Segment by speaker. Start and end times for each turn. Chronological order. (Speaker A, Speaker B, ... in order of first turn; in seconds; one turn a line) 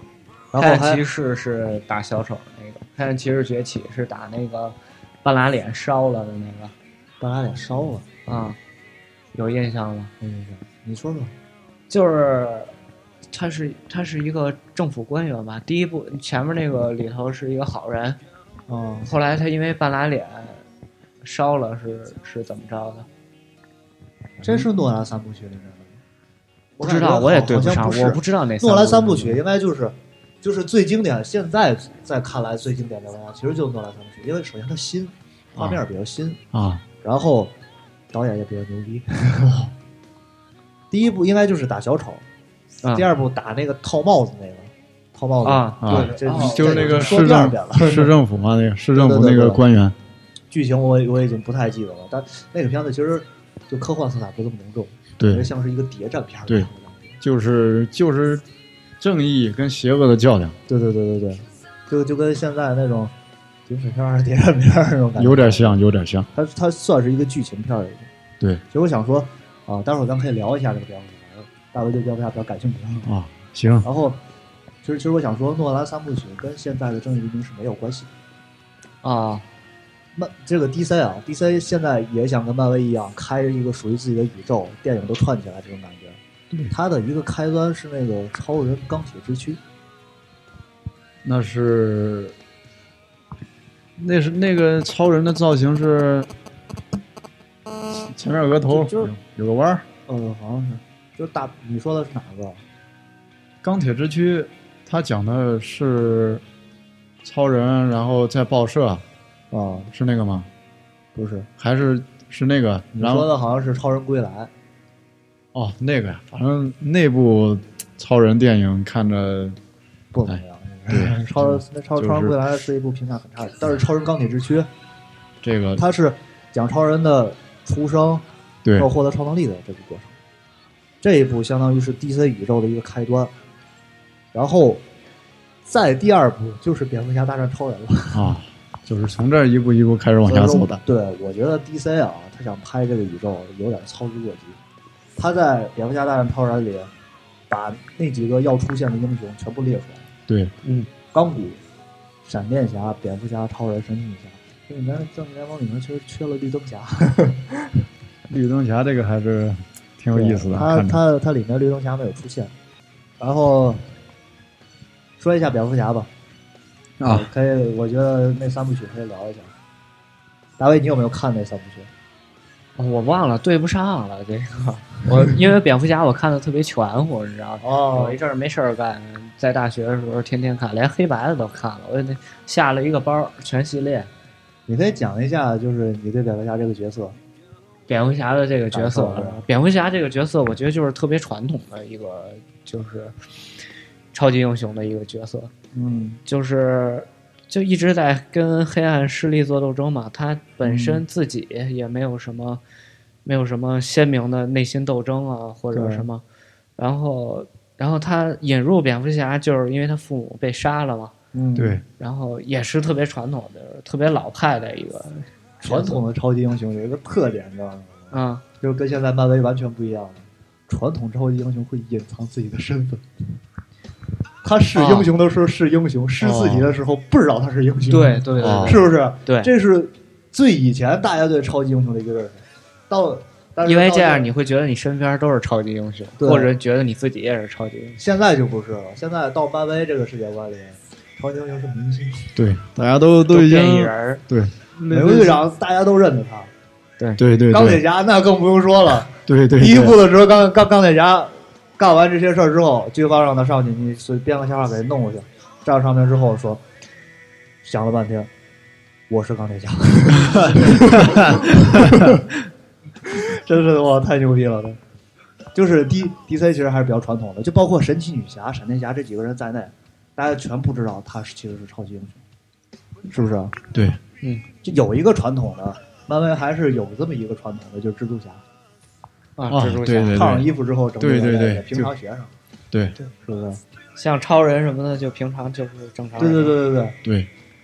Speaker A: 0.5-1.1
Speaker B: 0.6-6.7
Speaker A: 7.2-8.1
Speaker B: 8.3-8.6
Speaker B: 9.3-10.1
Speaker A: 10.2-11.3
Speaker B: 11.9-12.7
Speaker B: 13.3-18.2
Speaker A: 18.7-19.1
Speaker B: 19.0-20.6
Speaker B: 21.2-23.1
Speaker A: 24.4-26.0
Speaker A: 26.8-36.4
Speaker B: 26.8-29.4
Speaker C: 35.6-35.8
Speaker C: 36.5-36.8
Speaker A: 37.0-37.5
Speaker A: 38.1-39.7
Speaker A: 40.9-42.2
Speaker A: 42.9-48.1
Speaker B: 45.4-47.2
Speaker C: 45.8-50.0
Speaker A: 48.9-49.6
Speaker A: 50.5-57.2
Speaker C: 55.2-55.5
Speaker C: 57.2-58.4
Speaker C: 59.0-60.6
Speaker A: 60.7-63.1
Speaker A: 63.7-65.8
Speaker C: 65.2-66.3
Speaker A: 66.3-68.1
Speaker A: 68.7-73.1
Speaker C: 73.1-73.9
Speaker A: 73.8-74.2
Speaker A: 74.8-78.1
Speaker B: 79.0-79.5
Speaker A: 80.2-86.2
Speaker A: 86.7-89.6
Speaker C: 91.2-92.3
Speaker C: 94.0-96.3
Speaker C: 98.0-99.8
Speaker A: 98.7-99.1
Speaker A: 100.1-102.6
Speaker C: 103.6-106.4
Speaker C: 107.2-109.0
Speaker A: 109.5-109.9
Speaker C: 109.9-110.5
Speaker A: 111.2-111.5
Speaker C: 111.6-113.3
Speaker A: 113.0-114.5
Speaker C: 115.5-119.6
Speaker A: 120.1-124.7
Speaker C: 120.9-122.4
Speaker C: 125.4-125.8
Speaker A: 125.8-128.2
Speaker A: 128.8-130.2
Speaker A: 131.0-133.3
Speaker A: 134.3-134.8
Speaker A: 135.7-138.3
Speaker C: 138.1-140.8
Speaker A: 140.2-144.6
Speaker A: 145.2-146.9
Speaker A: 147.5-150.1
Speaker B: 150.6-150.9
Speaker A: 151.1-151.6
Speaker A: 152.2-157.8
Speaker C: 158.3-161.0
Speaker A: 160.1-162.5
Speaker A: 163.2-163.8
Speaker A: 165.2-166.1
Speaker C: 167.0-167.3
Speaker A: 167.1-169.5
Speaker A: 170.6-171.9
Speaker B: 172.8-184.1
Speaker A: 177.6-178.2
Speaker A: 184.7-187.2
Speaker B: 187.9-193.2
Speaker A: 188.7-189.4
Speaker B: 194.1-195.5
Speaker A: 195.7-196.2
Speaker B: 196.3-202.6
Speaker A: 200.6-201.0
Speaker B: 203.2-206.2
Speaker A: 205.7-206.1
Speaker B: 206.8-211.1
Speaker A: 211.3-211.8
Speaker C: 211.6-211.8
Speaker B: 212.0-216.0
Speaker A: 215.6-223.1
Speaker B: 218.1-218.4
Speaker A: 224.4-234.3
Speaker B: 224.8-225.1
Speaker C: 226.2-226.7
Speaker B: 227.9-229.5
Speaker C: 228.4-228.8
Speaker B: 233.6-238.0
Speaker A: 236.2-236.5
Speaker A: 238.0-242.4
Speaker C: 242.4-244.6
Speaker B: 243.3-244.2
Speaker B: 244.9-245.3
Speaker A: 244.9-246.5
Speaker C: 247.2-247.8
Speaker A: 247.5-256.6
Speaker C: 249.3-250.0
Speaker A: 257.6-258.3
Speaker A: 259.1-262.3
Speaker C: 260.4-262.0
Speaker A: 263.0-264.8
Speaker A: 265.5-272.2
Speaker A: 273.1-273.6
Speaker C: 273.7-274.0
Speaker A: 274.6-278.4
Speaker B: 279.4-280.2
Speaker C: 279.5-280.5
Speaker A: 280.1-282.3
Speaker C: 281.0-281.9
Speaker A: 283.2-283.6
Speaker B: 284.0-286.6
Speaker A: 286.2-287.0
Speaker C: 287.0-287.3